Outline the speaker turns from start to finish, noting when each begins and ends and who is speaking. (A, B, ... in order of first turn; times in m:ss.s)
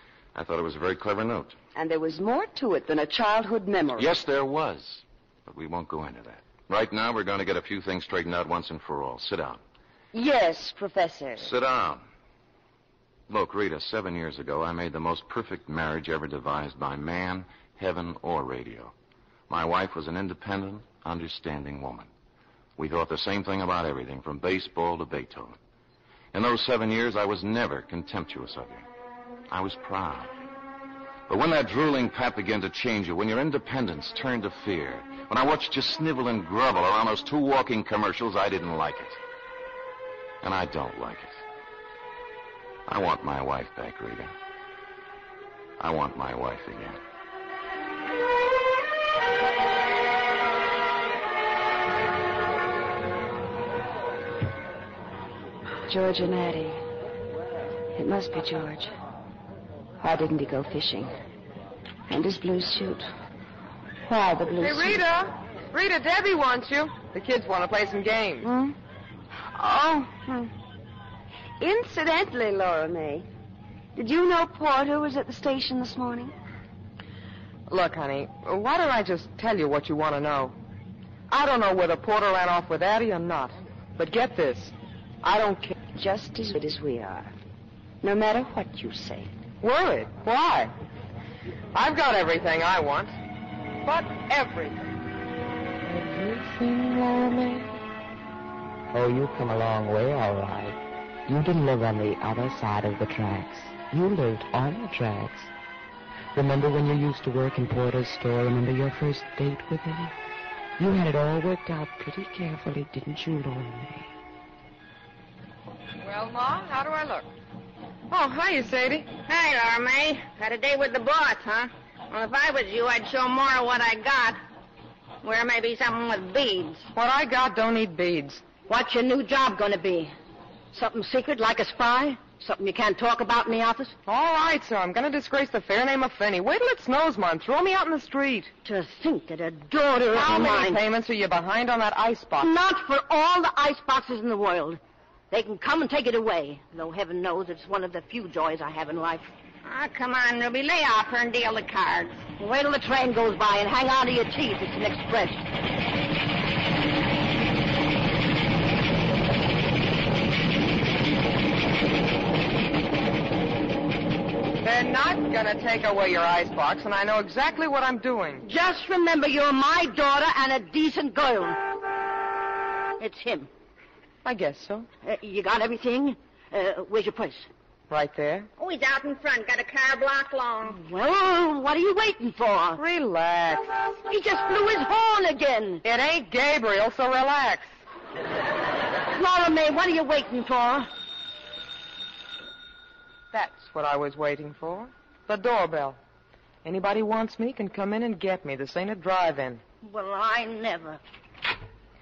0:00.3-0:01.6 A
0:01.8-0:04.1 B
0:04.0-0:09.6 A
0:10.1-0:11.5 B
0:11.4-0:12.0 A
0:13.3-0:18.9 A
0:19.5-0:22.1 A
0:22.8-0:25.6 A
0:26.3-0:28.9 A
0:29.5-0:30.3 A
0:31.3-0:39.2 A
0:40.4-0:41.4 A
0:42.9-0:44.3 A
0:45.8-0:47.0 A
0:55.9-0:56.8 B
0:58.0-0:58.9 B
1:00.0-1:01.1 B
1:02.1-1:03.0 B
1:04.1-1:05.0 B
1:04.6-1:08.5 C
1:08.4-1:08.8 B
1:09.4-1:10.5 B
1:11.6-1:13.3 B
1:14.0-1:16.3 B
1:17.7-1:20.6 C
1:21.3-1:25.8 C
1:25.8-1:27.3 B
1:28.0-1:29.3 B
1:29.6-1:30.7 C
1:31.7-1:33.2 C
1:33.8-1:34.9 C
1:35.8-1:37.8 C
1:38.9-1:45.5 D
1:46.3-1:50.1 D
1:50.8-1:54.1 D
1:56.0-1:57.3 C
1:58.1-1:59.1 C
1:59.3-2:04.4 E
2:05.2-2:06.9 E
2:07.0-2:08.4 C
2:08.7-2:10.1 F
2:10.7-2:13.9 F
2:14.1-2:18.5 C
2:18.6-2:20.8 F
2:20.1-2:22.5 C
2:22.4-2:24.8 F
2:25.3-2:29.3 F
2:29.6-2:32.3 E
2:32.4-2:35.4 F
2:44.6-2:48.4 C
2:48.4-2:51.6 F
2:53.0-2:53.5 F
2:54.2-2:54.9 C
2:55.0-2:57.5 F
2:57.9-2:58.5 C
2:58.6-3:00.8 E
3:00.7-3:02.8 F
3:02.8-3:04.0 C
3:04.1-3:05.8 F
3:05.8-3:07.7 C
3:09.1-3:10.9 F
3:13.3-3:16.0 C
3:16.6-3:19.6 C
3:19.8-3:21.0 F